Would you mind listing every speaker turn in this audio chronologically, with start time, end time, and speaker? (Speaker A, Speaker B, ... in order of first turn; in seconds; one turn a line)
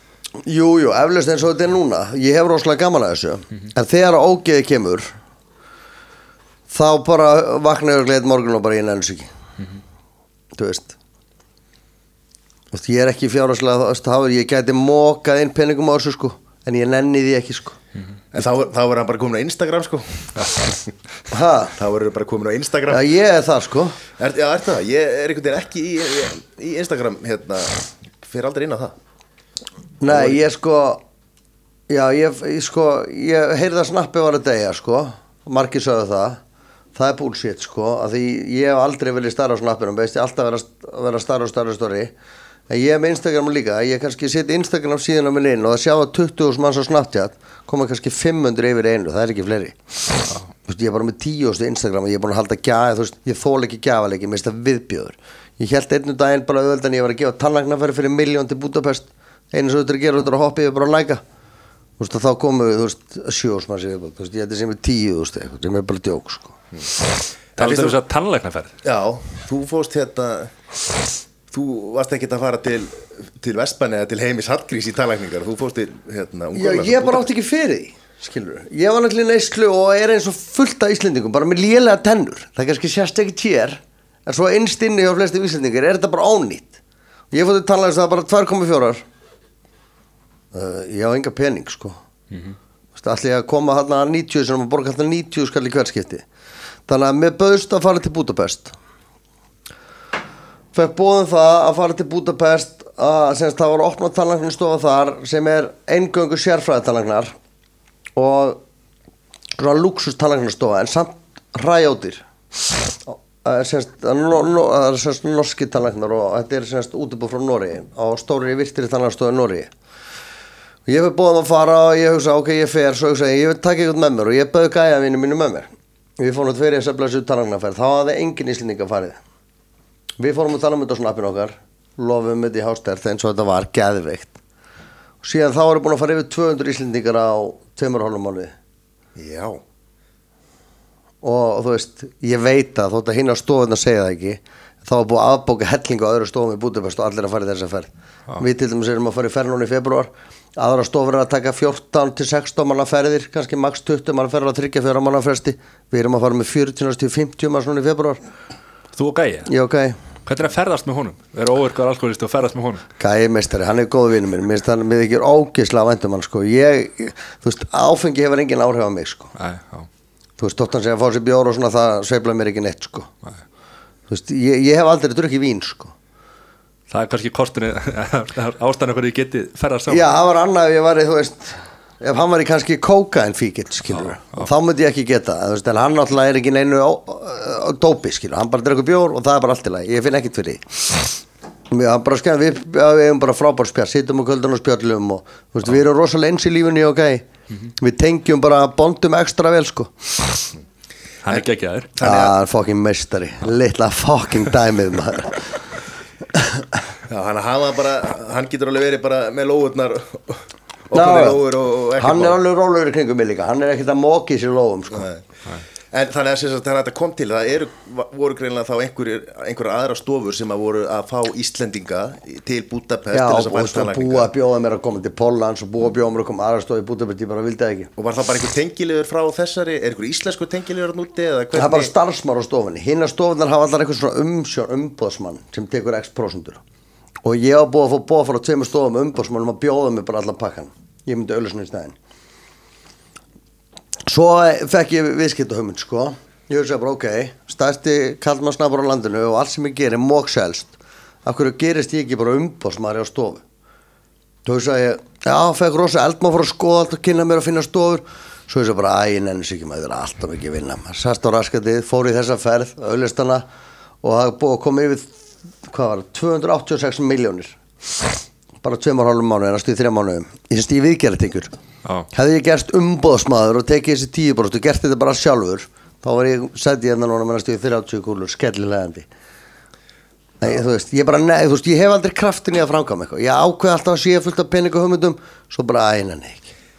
Speaker A: 0.4-5.1
Speaker A: 6.7-9.3
Speaker A: 10.6-10.9
Speaker A: 12.7-17.8
Speaker B: 18.3-20.9
Speaker A: 21.3-21.7
Speaker B: 21.7-23.1
Speaker A: 22.9-24.0
Speaker B: 24.2-28.9
Speaker A: 30.0-31.0
Speaker B: 30.1-30.4
Speaker A: 31.9-36.4
Speaker A: 36.9-42.1
Speaker A: 42.7-49.8
Speaker A: 50.6-61.2
Speaker A: 62.0-66.5
Speaker B: 67.6-68.0
Speaker C: 67.6-68.7
Speaker B: 68.8-70.5
Speaker B: 71.5-77.3
Speaker A: 76.5-86.8
Speaker A: 87.3-89.0
Speaker A: 90.5-92.0
Speaker C: 92.3-92.5
Speaker A: 92.9-96.2
Speaker A: 96.9-98.7
Speaker A: 100.7-107.3
Speaker A: 108.2-108.6
Speaker A: 109.6-112.2
Speaker A: 113.1-119.7
Speaker A: 120.8-129.2
Speaker A: 130.2-134.4
Speaker A: 135.2-138.5
Speaker B: 139.2-139.6
Speaker A: 141.2-158.2
Speaker C: 158.9-159.5
Speaker A: 159.5-160.0
Speaker C: 160.2-162.8
Speaker A: 163.0-169.3
Speaker C: 169.4-169.9
Speaker A: 170.4-173.1
Speaker A: 174.1-175.9
Speaker C: 176.9-180.1
Speaker A: 179.9-190.6
Speaker C: 183.9-184.5
Speaker A: 191.7-197.2
Speaker A: 197.8-199.9
Speaker C: 201.2-201.9
Speaker B: 201.9-202.4
Speaker A: 202.0-205.6
Speaker A: 206.3-206.6
Speaker B: 207.1-212.4
Speaker A: 210.9-211.4
Speaker A: 211.9-215.1
Speaker B: 215.9-224.3
Speaker A: 223.1-227.9
Speaker B: 228.0-231.9
Speaker A: 231.5-236.6
Speaker A: 237.2-241.9
Speaker A: 244.1-250.7
Speaker A: 251.2-253.4
Speaker A: 254.4-263.4
Speaker A: 264.0-265.1
Speaker A: 265.7-267.6
Speaker A: 268.6-271.5
Speaker A: 272.1-279.1
Speaker A: 280.4-286.5